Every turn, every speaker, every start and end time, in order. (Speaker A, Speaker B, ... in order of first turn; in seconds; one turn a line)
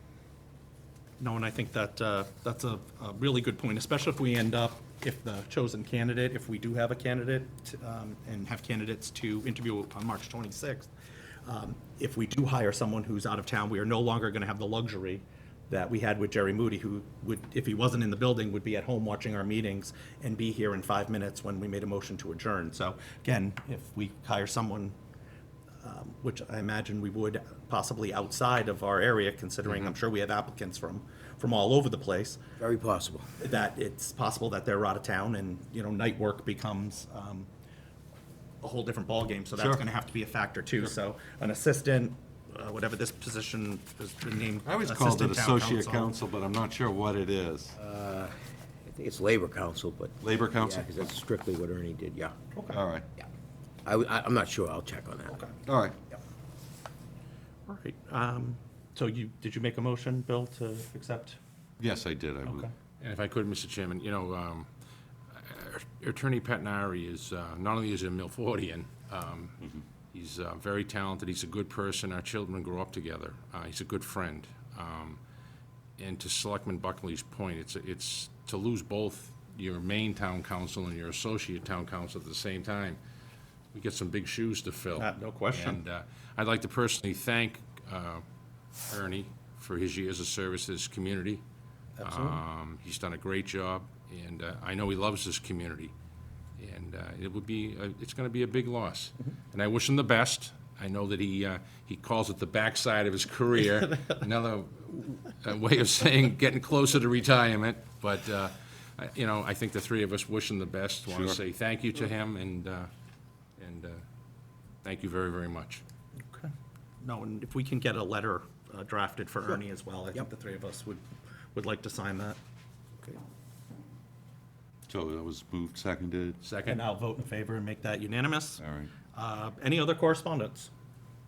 Speaker A: 1.2-10.9
Speaker A: 11.4-25.0
Speaker A: 25.8-32.4
Speaker B: 32.6-33.4
Speaker A: 33.4-37.5
Speaker A: 38.6-46.1
Speaker C: 39.6-39.8
Speaker C: 44.6-47.8
Speaker B: 47.8-48.4
Speaker B: 48.9-52.4
Speaker C: 50.2-50.9
Speaker A: 52.5-52.8
Speaker C: 52.7-53.1
Speaker B: 53.9-55.4
Speaker C: 55.7-56.0
Speaker A: 57.7-61.4
Speaker C: 61.8-62.7
Speaker A: 62.5-62.7
Speaker D: 63.0-64.7
Speaker D: 65.3-75.2
Speaker D: 76.0-83.0
Speaker D: 83.7-88.2
Speaker A: 85.0-85.8
Speaker D: 88.9-91.4
Speaker B: 92.0-92.4
Speaker D: 92.0-95.9
Speaker D: 96.6-112.9
Speaker C: 111.1-111.4
Speaker D: 113.6-114.0
Speaker D: 114.8-115.8
Speaker A: 116.2-116.5
Speaker A: 117.0-121.0
Speaker A: 121.5-122.4
Speaker C: 124.9-126.4
Speaker D: 126.4-126.8
Speaker A: 126.7-128.6
Speaker C: 128.6-128.9
Speaker A: 129.1-130.7